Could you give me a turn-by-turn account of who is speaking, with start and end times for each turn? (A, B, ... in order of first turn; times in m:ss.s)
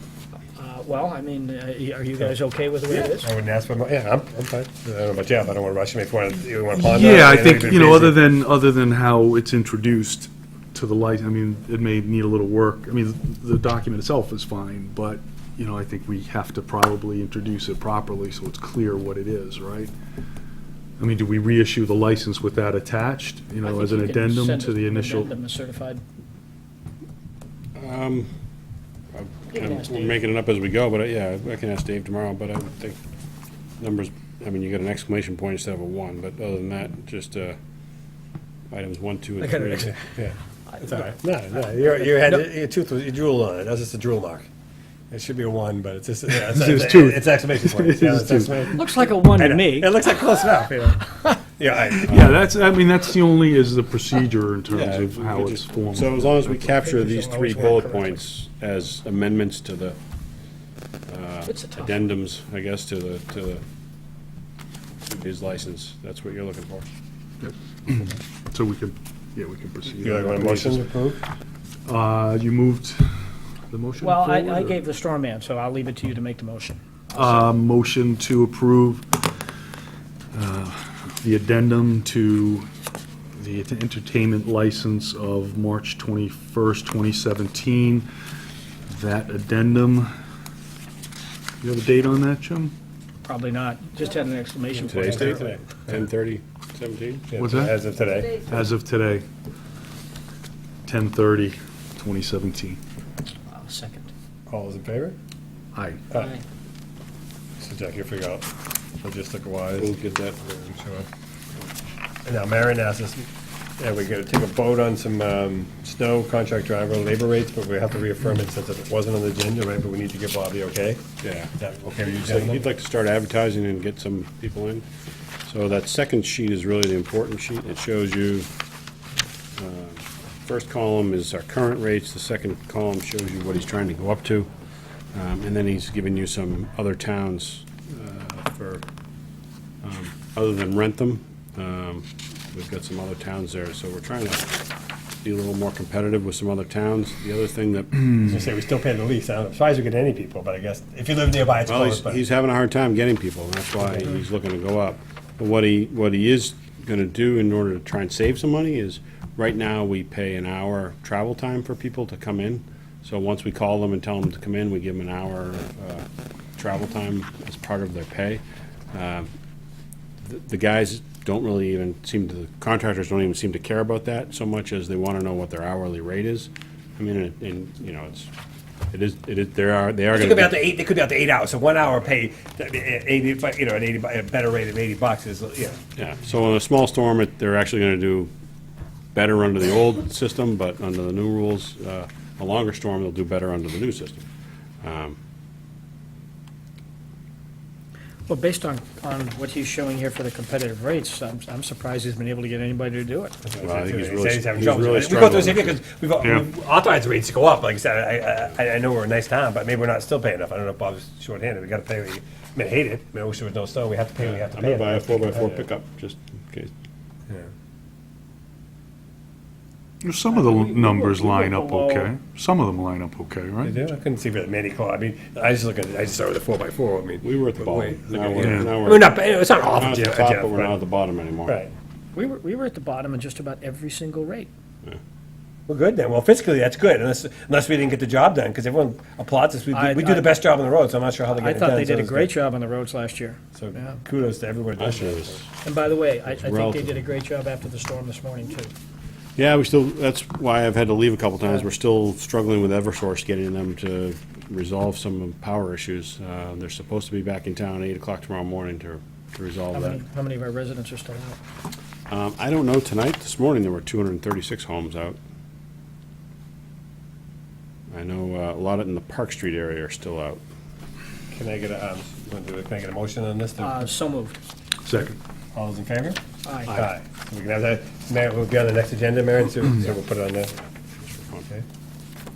0:00.6-0:03.3 A
0:02.9-0:08.2 B
0:06.7-0:19.9 C
0:21.0-0:25.3 C
0:23.6-0:26.0 A
0:27.8-0:28.3 D
0:29.1-0:33.0 D
0:29.6-0:30.2 A
0:33.8-0:37.6 D
0:38.7-0:39.9 D
0:39.4-0:39.9 A
0:39.8-0:44.5 B
0:41.8-0:42.4 A
0:45.1-0:52.4 B
0:46.4-0:48.7 C
0:48.7-0:50.0 A
0:52.0-0:56.4 C
0:54.7-1:00.0 D
0:56.6-0:58.2 A
1:01.1-1:03.6 D
1:01.5-1:02.2 A
1:05.0-1:06.9 D
1:07.4-1:10.8 C
1:09.9-1:11.2 B
1:11.9-1:13.1 C
1:13.7-1:14.8 C
1:14.0-1:17.2 A
1:17.1-1:19.3 C
1:20.3-1:22.7 C
1:23.4-1:28.1 C
1:28.9-1:30.1 C
1:31.6-1:32.7 C
1:33.2-1:35.5 A
1:34.7-1:36.0 B
1:34.9-1:37.3 D
1:37.3-1:38.5 B
1:37.4-1:37.8 C
1:38.4-1:39.2 C
1:40.8-1:42.8 C
1:43.5-1:44.1 A
1:44.5-1:45.2 B
1:45.7-1:46.0 C
1:46.1-1:46.4 A
1:47.6-1:48.4 B
1:49.0-1:50.1 B
1:49.8-1:50.7 D
1:50.7-1:51.1 B
1:52.2-1:53.3 B
1:53.8-2:01.0 B
2:01.2-2:04.8 D
2:01.6-2:02.7 B
2:05.5-2:08.5 D
2:09.6-2:14.5 D
2:15.1-2:18.8 D
2:19.8-2:24.6 D
2:25.2-2:28.2 D
2:28.2-2:32.2 B
2:31.7-2:46.0 D
2:46.6-2:48.4 D
2:48.9-2:49.3 D
2:50.2-2:58.3 D
2:58.9-3:00.7 D
3:00.1-3:05.8 B
3:06.0-3:08.3 D
3:09.1-3:14.3 D
3:14.8-3:15.2 D
3:18.3-3:23.4 A
3:23.4-3:35.7 B
3:23.6-3:25.8 D
3:34.2-3:36.7 D
3:40.0-3:43.8 C
3:40.3-3:42.1 A
3:43.6-3:50.8 B
3:47.2-3:51.6 D
3:48.4-3:48.7 C
3:51.5-3:51.7 B
3:52.2-3:54.5 A
3:55.7-4:02.3 B
3:59.7-4:00.4 A
4:01.3-4:04.0 A
4:03.5-4:05.4 B
4:04.8-4:05.5 D
4:05.6-4:08.7 A
4:06.3-4:07.0 D
4:09.4-4:20.0 D
4:19.7-4:21.4 A
4:22.1-4:25.2 D
4:27.9-4:30.4 D
4:31.3-4:33.9 B
4:33.6-4:34.4 A
4:34.8-4:35.2 C
4:35.0-4:40.6 B
4:36.4-4:36.8 A
4:41.1-4:41.5 D